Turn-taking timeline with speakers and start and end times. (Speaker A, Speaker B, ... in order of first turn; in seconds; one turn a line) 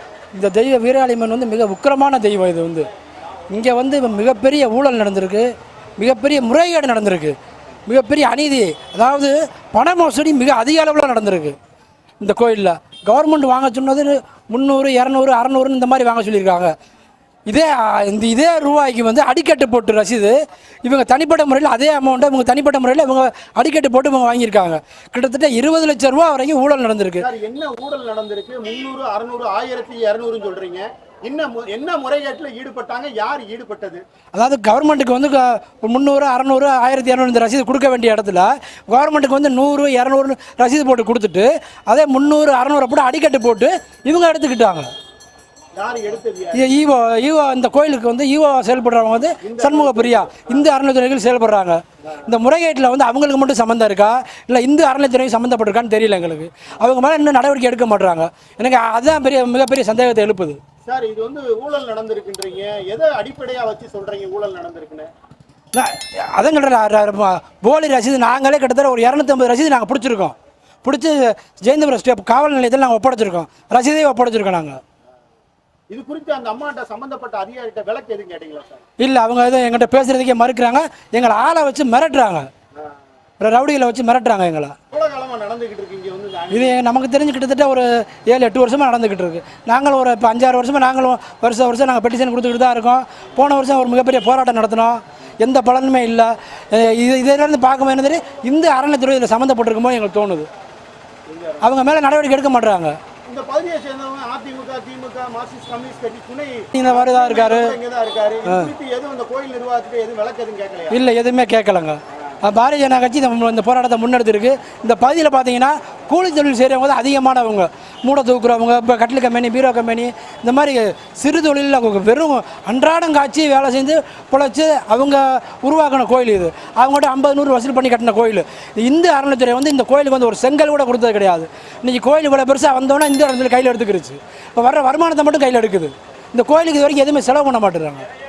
Speaker A: 0.3-2.9
Speaker A: 3.5-7.3
Speaker A: 7.9-11.6
Speaker A: 12.2-16.7
Speaker A: 17.5-27.3
Speaker B: 27.2-34.0
Speaker A: 34.3-44.9
Speaker B: 45.7-46.7
Speaker A: 46.5-60.6
Speaker B: 49.4-50.6
Speaker B: 60.9-65.1
Speaker A: 65.7-74.8
Speaker B: 75.9-78.8
Speaker A: 79.0-82.5
Speaker A: 83.4-84.7
Speaker B: 84.9-86.8
Speaker A: 86.5-100.5
Speaker B: 101.3-101.7
Speaker A: 101.6-103.0
Speaker B: 103.3-111.0
Speaker A: 106.7-107.7
Speaker A: 108.4-108.7
Speaker A: 110.9-138.0
Speaker B: 112.1-112.4